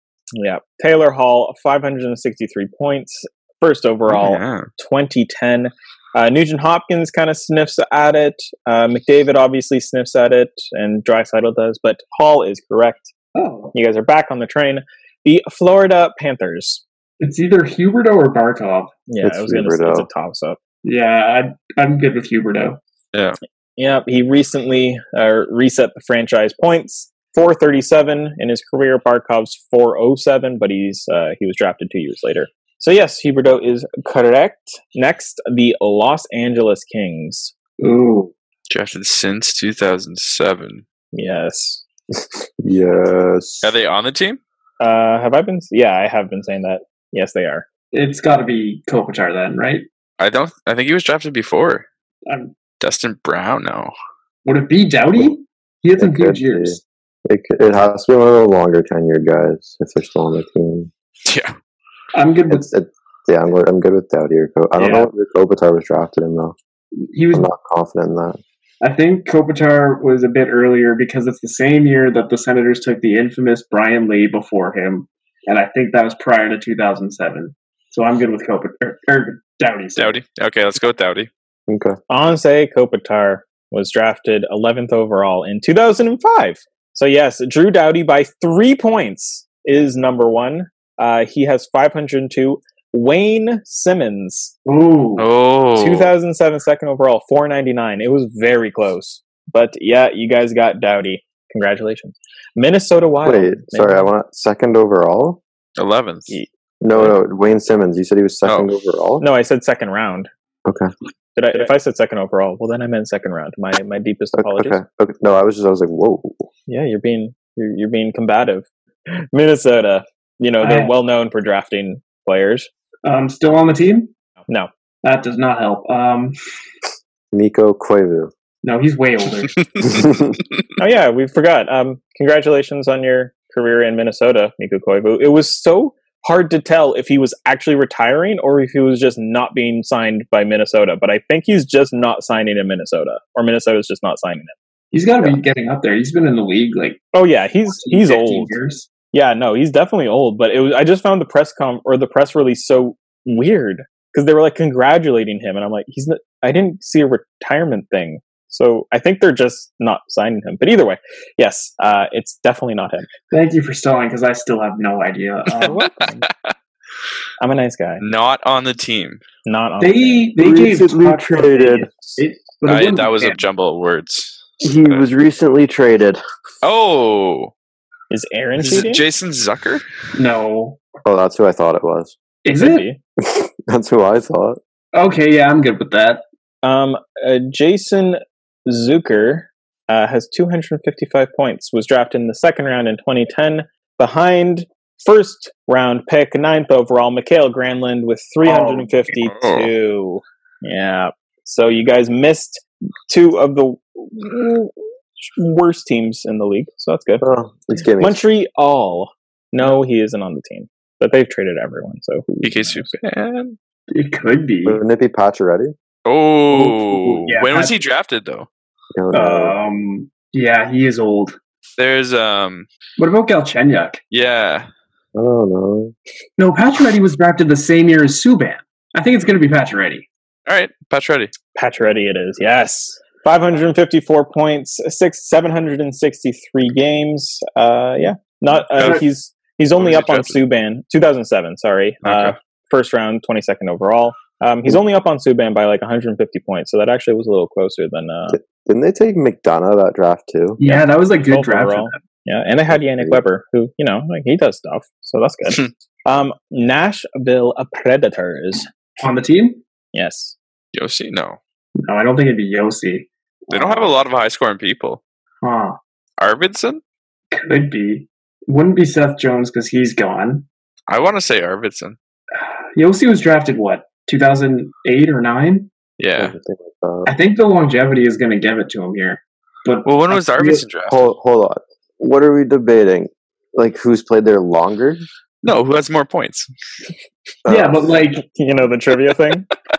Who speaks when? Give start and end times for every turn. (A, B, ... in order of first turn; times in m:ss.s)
0:00.4-0:13.1 A
0:04.1-0:04.7 B
0:13.4-0:13.7 C
0:13.7-0:16.8 A
0:17.2-0:18.9 C
0:19.1-0:20.6 A
0:19.2-0:20.1 D
0:20.8-0:22.8 C
0:23.8-0:37.5 A
0:37.8-0:38.3 C
0:38.7-0:40.8 B
0:41.1-0:41.8 A
0:42.1-0:43.7 D
0:43.6-0:44.4 B
0:44.8-0:47.7 A
0:47.9-0:49.9 C
0:50.2-0:51.9 B
0:52.3-0:52.5 C
0:52.8-0:53.9 B
0:54.4-0:56.8 C
0:56.0-1:00.9 D
1:01.2-1:01.5 B
1:02.1-1:02.7 C
1:02.5-1:06.6 D
1:04.8-1:05.1 C
1:07.0-1:07.5 C
1:07.3-1:08.4 D
1:08.8-1:20.2 C
1:20.0-1:21.3 B
1:21.7-1:22.0 D
1:22.1-1:34.5 A
1:34.6-1:35.3 C
1:35.2-1:36.1 B
1:35.8-1:44.1 A
1:43.2-1:45.4 D
1:45.8-1:46.3 B
1:46.3-1:47.2 A
1:46.8-1:49.2 D
1:49.2-1:50.3 A
1:50.7-1:50.9 D
1:51.4-1:54.8 A
1:54.3-1:56.5 D
1:56.7-2:02.7 A
2:00.6-2:00.9 C
2:03.0-2:04.1 C
2:05.0-2:06.4 C
2:07.3-2:08.3 D
2:08.6-2:09.9 C
2:09.9-2:10.3 D
2:10.8-2:24.5 A
2:24.9-2:27.0 C
2:27.1-2:28.5 A
2:27.7-2:28.9 C
2:29.1-2:43.1 A
2:43.3-2:45.8 C
2:45.6-2:46.5 B
2:45.6-2:46.3 A
2:47.4-2:48.0 A
2:48.0-2:49.2 B
2:49.5-2:50.3 A
2:49.8-2:53.4 C
2:50.4-2:52.2 D
2:52.7-2:55.1 B
2:54.6-2:56.2 D
2:56.6-2:57.5 B
2:58.1-2:59.0 A
2:58.6-2:59.8 B
3:00.2-3:00.8 C
3:01.0-3:02.2 D
3:02.4-3:02.9 C
3:02.6-3:03.0 A
3:03.2-3:04.6 D
3:04.9-3:06.2 C
3:06.6-3:27.2 A
3:18.4-3:18.9 C
3:19.1-3:19.7 B
3:27.2-3:28.2 D
3:28.0-3:32.9 A
3:32.4-3:33.6 B
3:33.9-3:34.8 C
3:34.6-3:35.7 D
3:36.1-3:38.5 B
3:36.5-3:37.7 C
3:39.0-3:39.6 D
3:39.1-3:41.4 C
3:41.8-3:42.7 B
3:43.0-3:44.0 C
3:44.1-3:44.7 B
3:45.2-3:45.9 D
3:46.4-3:50.1 C
3:50.5-3:51.3 B
3:51.6-4:08.4 A
3:58.8-3:59.0 C
3:58.8-3:59.0 B
3:59.7-4:00.4 B
4:02.0-4:02.4 B
4:08.3-4:10.6 D
4:10.6-4:12.0 C
4:10.6-4:18.7 A
4:12.7-4:13.2 D
4:19.0-4:19.6 C
4:19.9-4:20.4 A
4:20.7-4:21.4 B
4:21.8-4:23.9 C
4:23.5-4:25.0 B
4:25.4-4:25.8 C
4:26.2-4:26.8 B
4:27.3-4:30.5 C
4:30.9-4:32.0 B
4:32.4-4:35.7 C
4:36.0-4:36.4 B
4:36.2-4:37.2 D
4:37.0-4:40.7 C
4:39.8-4:41.0 B
4:40.9-4:45.0 D
4:45.4-4:46.5 B
4:47.4-4:47.9 D
4:47.5-4:48.3 C
4:48.3-4:49.5 A